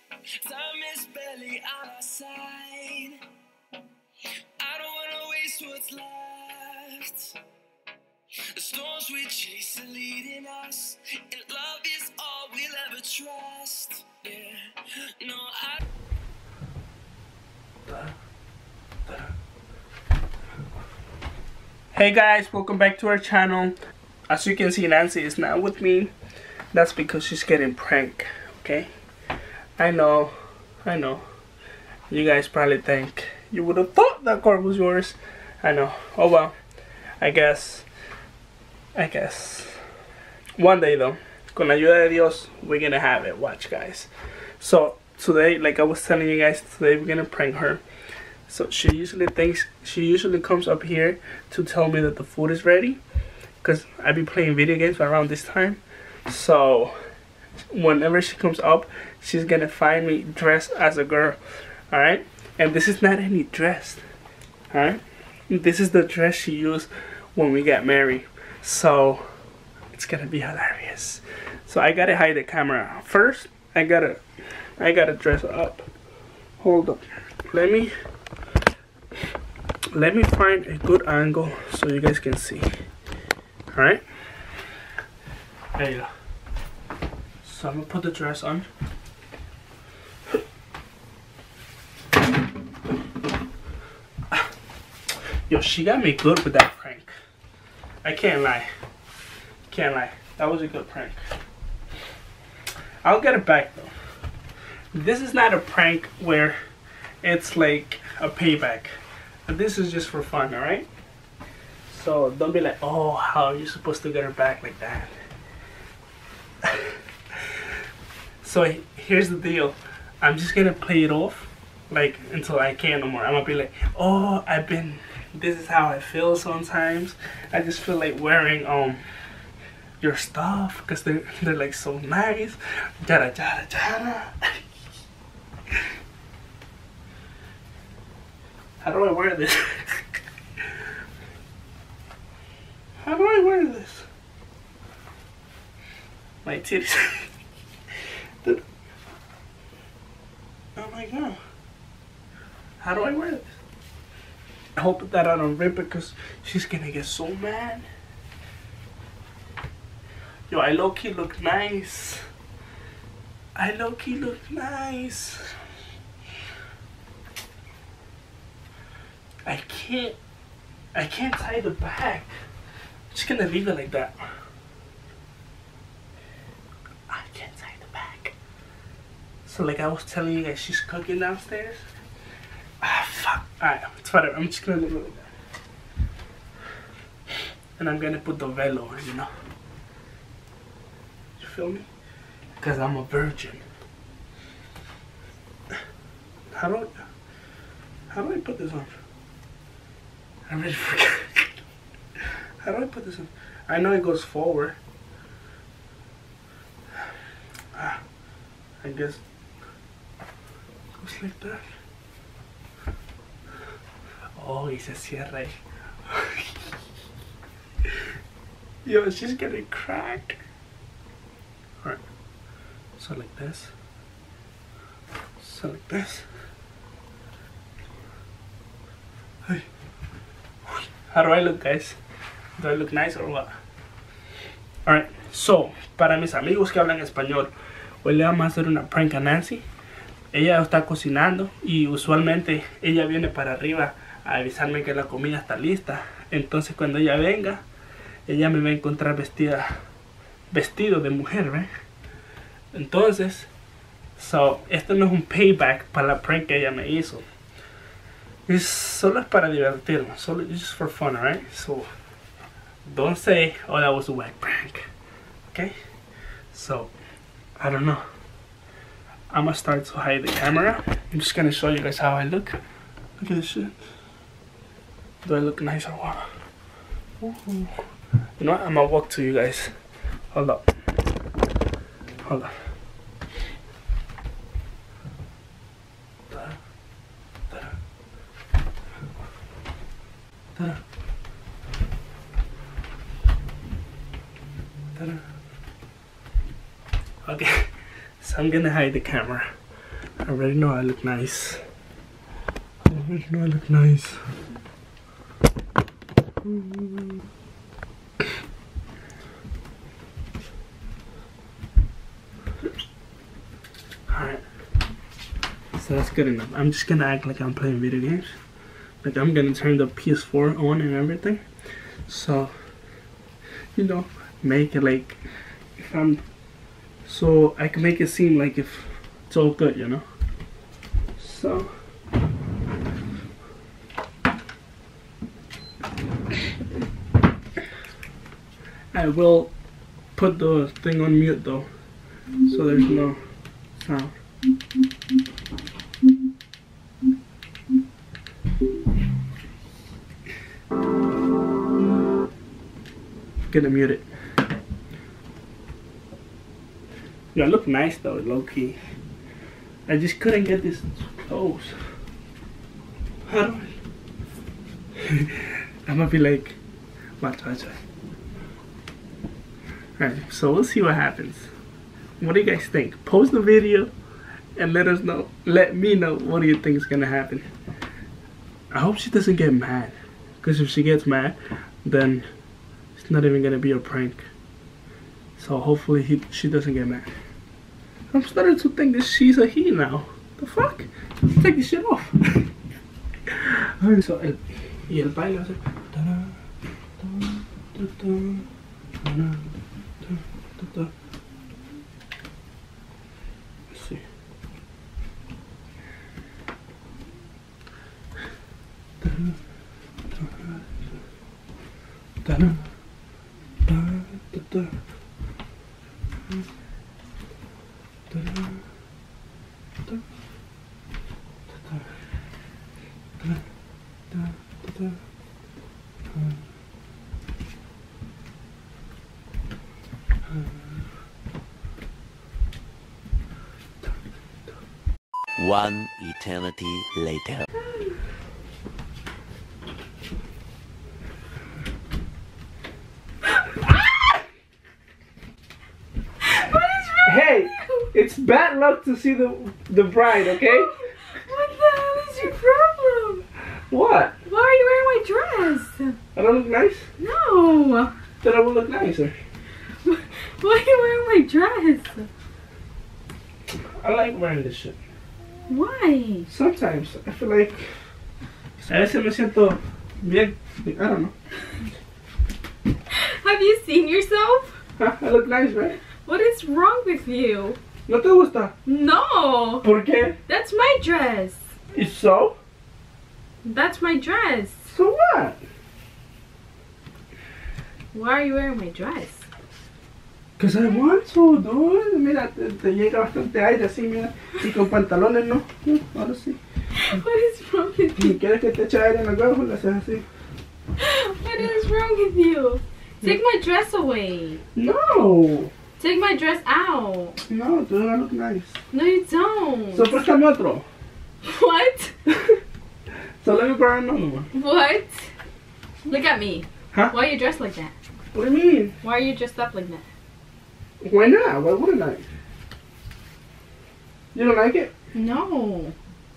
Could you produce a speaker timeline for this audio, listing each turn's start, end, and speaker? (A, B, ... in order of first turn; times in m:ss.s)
0:00.4-0:03.2 A
0:04.6-0:07.3 A
0:08.5-0:14.6 A
0:15.2-0:15.8 A
0:21.9-0:23.7 B
0:24.3-0:26.1 B
0:26.7-0:28.9 B
0:29.8-0:31.2 B
0:32.1-0:36.5 B
0:37.2-0:37.9 B
0:39.0-0:39.8 B
0:40.6-0:44.1 B
0:44.6-0:47.8 B
0:48.5-0:53.0 B
0:53.6-0:56.9 B
0:57.7-1:01.4 B
1:01.9-1:04.0 B
1:04.7-1:09.2 B
1:09.9-1:14.2 B
1:14.8-1:15.9 B
1:16.6-1:17.9 B
1:19.9-1:22.7 B
1:23.7-1:24.0 B
1:25.7-1:26.1 B
1:27.4-1:28.7 B
1:35.5-1:37.1 B
1:38.0-1:38.7 B
1:39.7-1:41.2 B
1:43.0-1:43.9 B
1:44.9-1:46.6 B
1:47.2-1:48.9 B
1:49.5-1:50.9 B
1:51.9-1:55.1 B
1:56.6-1:57.0 B
1:58.4-2:09.0 B
2:10.0-2:14.6 B
2:18.8-2:20.2 B
2:23.0-2:24.0 B
2:26.4-2:27.3 B
2:30.8-2:31.4 B
2:32.8-2:33.5 B
2:34.8-2:37.8 B
2:40.5-2:42.2 B
2:43.6-2:45.6 B
2:49.4-2:50.2 B
2:50.9-2:52.3 B
2:53.1-2:54.2 B
2:57.1-2:58.3 B
2:59.4-3:01.8 B
3:02.8-3:05.3 B
3:07.8-3:09.3 B
3:11.4-3:11.9 B
3:12.6-3:13.6 B
3:16.5-3:17.0 B
3:18.1-3:18.9 B
3:20.5-3:21.5 B
3:22.6-3:24.8 B
3:27.7-3:28.0 B
3:28.8-3:29.2 B
3:31.0-3:31.6 B
3:34.4-3:36.7 B
3:38.8-3:40.4 B
3:43.0-3:43.7 B
3:45.4-3:46.2 B
3:50.7-3:52.0 B
3:52.6-3:53.6 B
3:54.8-3:57.5 B
3:58.0-3:59.6 B
4:00.3-4:07.6 B
4:08.3-4:09.7 B
4:10.5-4:11.7 B
4:12.7-4:13.5 B
4:14.2-4:17.2 B
4:18.5-4:21.9 B
4:22.8-4:24.9 B
4:25.5-4:25.7 B
4:26.5-4:26.9 B
4:27.6-4:28.0 B
4:29.3-4:32.6 B
4:33.2-4:33.8 B
4:35.2-4:36.2 B
4:37.2-4:37.7 B
4:38.4-4:39.7 B
4:40.3-4:40.6 B
4:42.2-4:42.5 B
4:46.3-4:46.6 B
4:47.5-4:47.7 B
4:54.9-4:55.2 B
4:57.2-4:57.7 B
4:58.2-4:59.5 B
5:00.2-5:01.6 B
5:02.8-5:04.2 B
5:06.4-5:07.2 B
5:14.1-5:14.4 B
5:15.7-5:18.3 B
5:19.0-5:21.4 B
5:22.1-5:22.5 B
5:23.8-5:25.2 B
5:25.8-5:26.2 B
5:27.1-5:30.0 B
5:31.2-5:31.7 B
5:38.9-5:39.5 B
5:40.2-5:41.6 B
5:42.5-5:43.2 B
5:43.8-5:44.1 B
5:53.5-5:54.0 B
5:57.3-5:58.8 B
5:59.9-6:01.8 B
6:03.3-6:03.7 B
6:05.0-6:06.6 B
6:07.2-6:07.8 B
6:10.0-6:11.5 B
6:12.2-6:13.9 B
6:14.6-6:17.4 B
6:18.7-6:22.3 B
6:23.0-6:24.2 B
6:25.4-6:27.1 B
6:28.1-6:32.5 B
6:33.3-6:36.4 B
6:37.0-6:38.5 B
6:39.0-6:39.5 B
6:40.0-6:40.9 B
6:43.7-6:44.0 B
6:49.0-6:49.3 B
6:50.1-6:50.7 B
6:52.2-6:52.6 B
6:53.6-6:54.7 B
6:58.1-6:58.6 B
7:01.5-7:01.8 B
7:04.1-7:05.0 B
7:15.4-7:17.4 C
7:17.6-7:18.0 D
7:26.2-7:27.9 D
7:27.0-7:30.7 B
7:30.1-7:33.2 D
7:33.7-7:34.1 B
7:34.2-7:36.0 D
7:36.1-7:36.8 B
7:37.0-7:37.9 D
7:38.2-7:39.1 B
7:39.8-7:42.1 D
7:43.8-7:44.8 B
7:45.5-7:46.3 D
7:46.3-7:47.7 B
7:48.6-7:51.1 B
7:52.9-7:54.6 D
7:54.8-7:55.8 B
7:56.0-7:57.6 D
7:57.8-7:58.5 B
7:58.6-7:59.6 D
7:59.6-8:00.2 B
8:00.2-8:01.4 D
8:01.7-8:02.4 B
8:03.4-8:04.7 D
8:04.7-8:05.4 B
8:07.9-8:09.2 D
8:10.4-8:16.4 B
8:16.7-8:18.2 D
8:18.0-8:20.0 B
8:20.8-8:24.4 D
8:24.6-8:25.5 B
8:25.8-8:27.2 D
8:27.3-8:28.5 B
8:28.7-8:30.0 D
8:29.7-8:30.6 B
8:31.2-8:31.9 D
8:32.1-8:32.4 B
8:33.2-8:34.3 B
8:34.3-8:35.1 D
8:35.9-8:37.7 D
8:38.1-8:38.7 B
8:38.8-8:39.8 D
8:40.8-8:42.0 B
8:44.1-8:44.7 B
8:44.9-8:45.7 D